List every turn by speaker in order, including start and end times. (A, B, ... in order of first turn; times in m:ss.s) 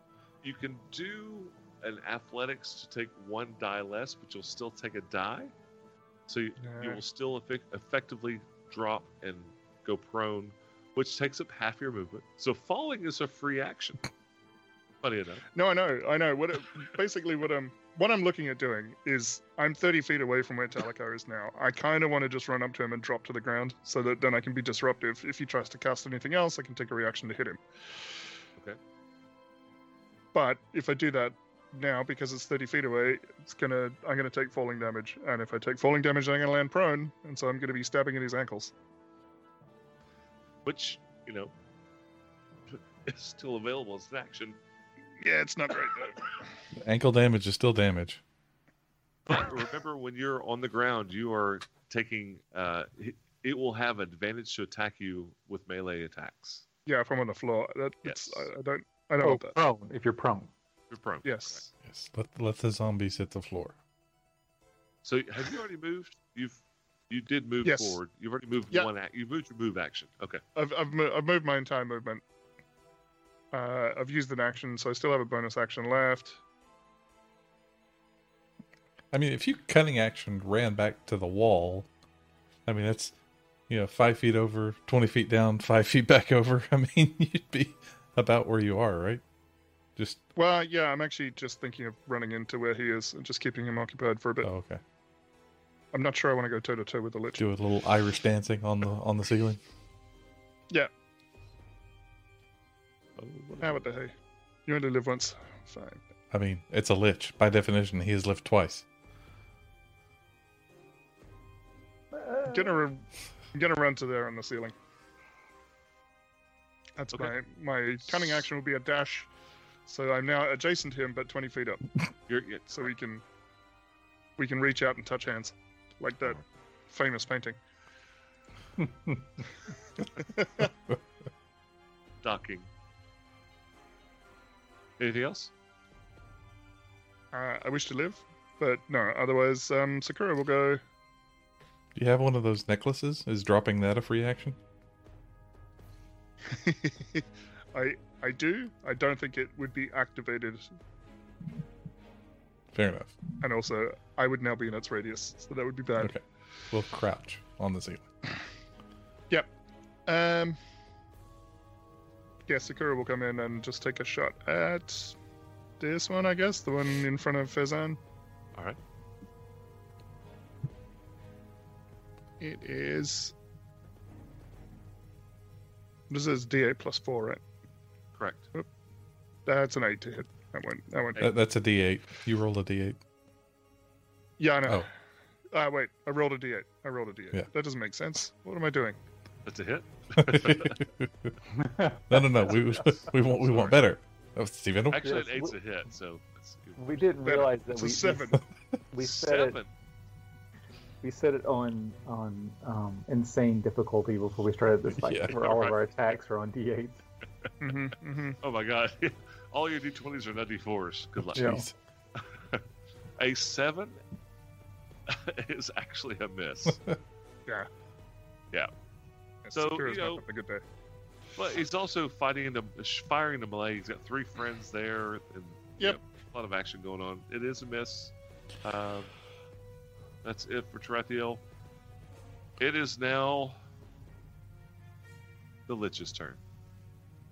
0:00.4-0:05.5 A
0:06.3-0:14.1 A
0:06.6-0:07.0 B
0:15.0-0:15.4 A
0:15.6-0:27.6 B
0:30.3-0:38.7 B
0:40.6-0:41.5 A
0:42.7-0:44.6 A
0:45.2-0:46.3 B
0:46.8-0:48.2 C
0:49.3-0:56.6 A
0:56.9-0:59.6 B
0:58.0-0:58.5 A
0:59.2-1:00.5 D
1:00.9-1:01.6 A
1:01.2-1:01.6 B
1:01.8-1:03.8 C
1:05.0-1:10.4 A
1:07.6-1:08.0 B
1:10.6-1:12.2 B
1:13.5-1:16.4 B
1:19.1-1:21.9 C
1:22.6-1:23.1 C
1:23.7-1:29.2 C
1:30.0-1:30.2 C
1:30.4-1:34.5 B
1:34.4-1:34.8 C
1:35.9-1:37.4 B
1:37.4-1:39.6 C
1:43.2-1:43.9 A
1:43.6-1:44.1 B
1:44.6-1:46.0 B
1:46.3-1:48.8 C
1:52.1-1:52.8 D
1:52.5-1:54.7 B
1:57.0-1:59.3 B
1:59.9-2:01.8 B
2:02.3-2:02.9 A
2:02.7-2:03.2 B
2:04.4-2:07.6 B
2:08.8-2:09.2 D
2:10.0-2:10.7 B
2:12.2-2:12.7 A
2:15.0-2:15.5 A
2:17.3-2:20.8 B
2:21.9-2:24.6 C
2:26.4-2:30.7 B
2:32.7-2:33.2 C
2:33.4-2:36.1 B
2:36.0-2:38.1 C
2:40.1-2:40.6 B
2:42.5-2:45.1 B
2:45.8-2:48.0 B
2:52.4-2:53.4 B
2:56.1-2:57.4 B
2:58.1-2:58.5 A
2:59.4-3:01.3 B
3:01.2-3:03.0 C
3:04.4-3:04.9 B
3:05.5-3:09.0 B
3:09.4-3:10.8 A
3:10.2-3:11.4 C
3:11.5-3:12.9 D
3:12.1-3:15.2 C
3:13.3-3:13.8 A
3:14.9-3:17.0 A
3:15.0-3:15.6 D
3:16.8-3:18.4 D
3:17.2-3:18.4 B
3:18.9-3:19.6 D
3:19.0-3:19.7 A
3:21.0-3:27.0 D
3:24.9-3:25.4 C
3:25.3-3:25.7 A
3:27.6-3:28.4 B
3:28.4-3:31.6 A
3:31.3-3:31.7 C
3:31.4-3:31.6 D
3:32.1-3:32.6 A
3:33.2-3:34.0 A
3:35.1-3:36.8 A
3:39.4-3:40.6 B
3:39.5-3:40.2 A
3:41.4-3:49.1 A
3:50.2-3:51.4 A
3:52.6-3:53.6 A
3:55.7-3:56.4 A